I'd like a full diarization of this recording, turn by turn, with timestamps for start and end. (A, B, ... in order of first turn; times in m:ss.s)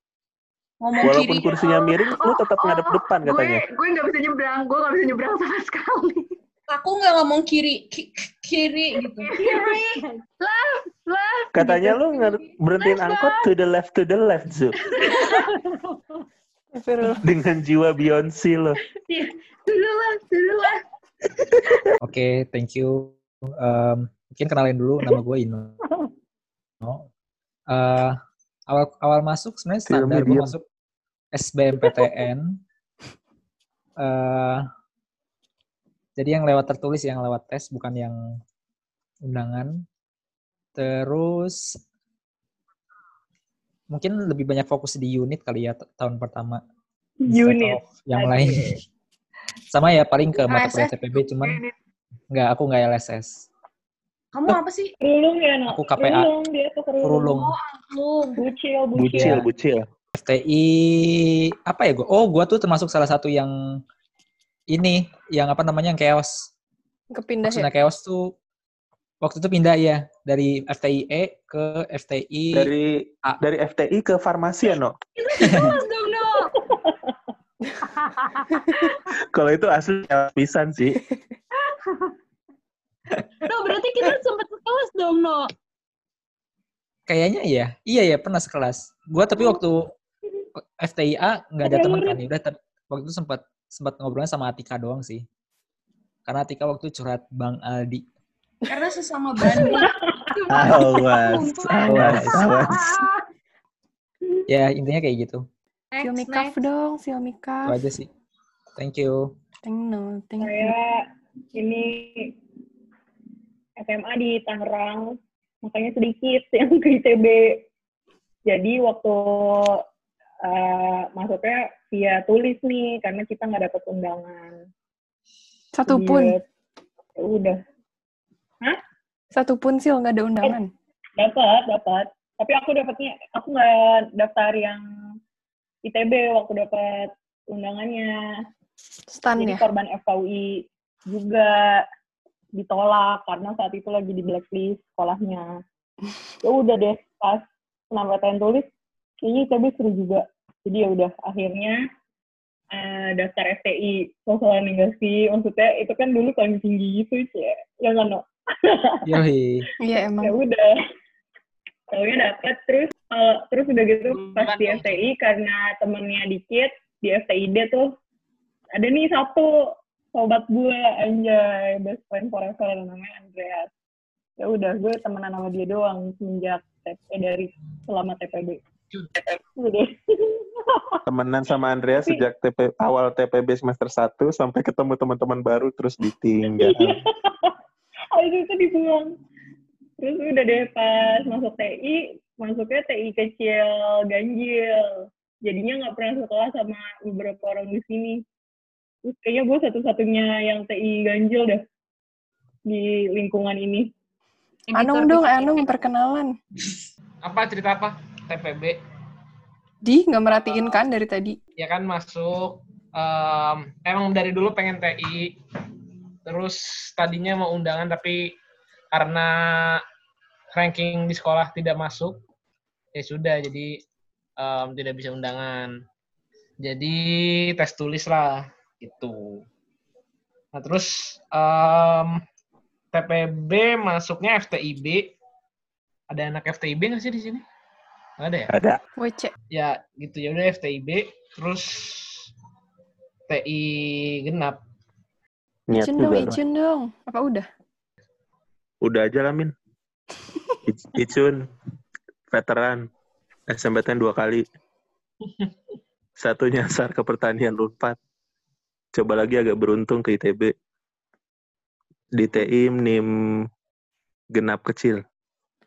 0:00.8-0:01.7 A
0:01.0-0:03.6 B
0:01.6-0:06.3 C
0:06.7-0:09.3 A
0:09.3-0:09.8 C
0:09.4-0:13.5 D
0:11.5-0:14.7 B
0:15.0-0:15.4 D
0:16.7-0:17.2 E
0:17.2-0:18.8 B
0:19.1-0:20.8 D
0:22.0-0:25.8 F
0:26.8-0:27.1 F
0:27.7-0:28.2 F
0:28.7-0:30.6 F
0:29.9-0:30.5 B
0:31.3-0:32.6 F
0:34.0-0:34.6 F
0:36.2-0:38.2 F
0:39.2-0:39.8 F
0:40.8-0:41.6 F
0:43.9-0:46.6 F
0:47.2-0:48.8 G
0:47.3-0:48.8 F
0:49.7-0:51.6 F
0:50.4-0:50.9 A
0:51.4-0:51.7 C
0:52.3-0:53.4 F
0:54.3-0:54.9 A
0:55.0-0:57.4 G
0:55.7-0:56.3 F
0:57.0-0:57.5 F
0:57.4-0:58.4 A
0:58.4-0:59.5 G
0:59.0-0:59.9 B
1:00.1-1:03.5 F
1:04.7-1:06.5 F
1:07.1-1:07.7 E
1:07.4-1:08.3 F
1:09.2-1:12.7 F
1:12.5-1:14.9 B
1:15.2-1:16.5 D
1:15.4-1:15.7 F
1:16.6-1:17.1 G
1:18.2-1:18.8 D
1:19.3-1:21.0 B
1:23.4-1:25.5 D
1:27.1-1:29.9 F
1:30.6-1:35.2 F
1:31.6-1:32.2 G
1:36.3-1:38.0 F
1:38.6-1:39.9 A
1:39.5-1:43.2 D
1:40.5-1:43.0 B
1:41.8-1:42.5 F
1:44.5-1:45.4 F
1:45.9-1:46.6 A
1:46.0-1:47.8 E
1:47.6-1:48.1 F
1:48.8-1:49.3 F
1:49.6-1:50.7 E
1:50.4-1:52.3 G
1:53.8-1:57.6 G
1:58.5-1:59.8 G
2:00.4-2:04.6 G
2:05.7-2:06.4 E
2:05.9-2:06.4 G
2:07.2-2:07.6 G
2:09.3-2:10.7 E
2:11.2-2:14.8 G
2:15.8-2:18.1 G
2:19.1-2:19.7 E
2:19.3-2:21.8 G
2:22.5-2:25.5 G
2:26.4-2:28.7 G
2:29.2-2:31.8 G
2:32.7-2:39.2 G
2:39.0-2:39.7 F
2:39.8-2:40.4 E
2:40.2-2:40.7 G
2:41.9-2:47.9 G
2:44.1-2:45.0 H
2:48.7-2:49.5 G
2:50.1-2:53.7 G
2:54.4-2:58.6 G
2:58.9-2:59.3 H
2:59.6-3:01.0 G
3:01.0-3:07.0 B
3:01.9-3:02.2 G
3:06.4-3:07.5 G
3:08.1-3:09.1 G
3:10.0-3:18.2 G
3:19.0-3:21.6 G
3:22.6-3:23.9 G
3:24.7-3:25.6 D
3:24.7-3:26.3 E
3:27.2-3:28.8 H
3:29.8-3:31.4 E
3:30.3-3:30.8 H
3:31.6-3:35.4 H
3:36.2-3:38.3 H
3:38.9-3:39.8 H
3:40.5-3:42.2 H
3:43.0-3:43.8 H
3:44.4-3:45.7 H
3:46.6-3:49.4 H
3:50.5-3:52.2 H
3:52.9-3:55.1 H
3:56.1-3:57.4 H
3:58.2-3:58.5 H
3:58.5-3:58.8 B
3:59.0-3:59.3 E
3:59.5-4:02.3 H
4:03.3-4:04.6 H
4:05.7-4:06.4 B
4:05.8-4:07.5 E
4:08.8-4:09.5 B
4:10.7-4:11.5 B
4:12.3-4:12.8 B
4:13.5-4:14.4 B
4:16.2-4:18.0 B
4:18.9-4:20.5 B
4:22.1-4:23.0 B
4:24.3-4:25.0 B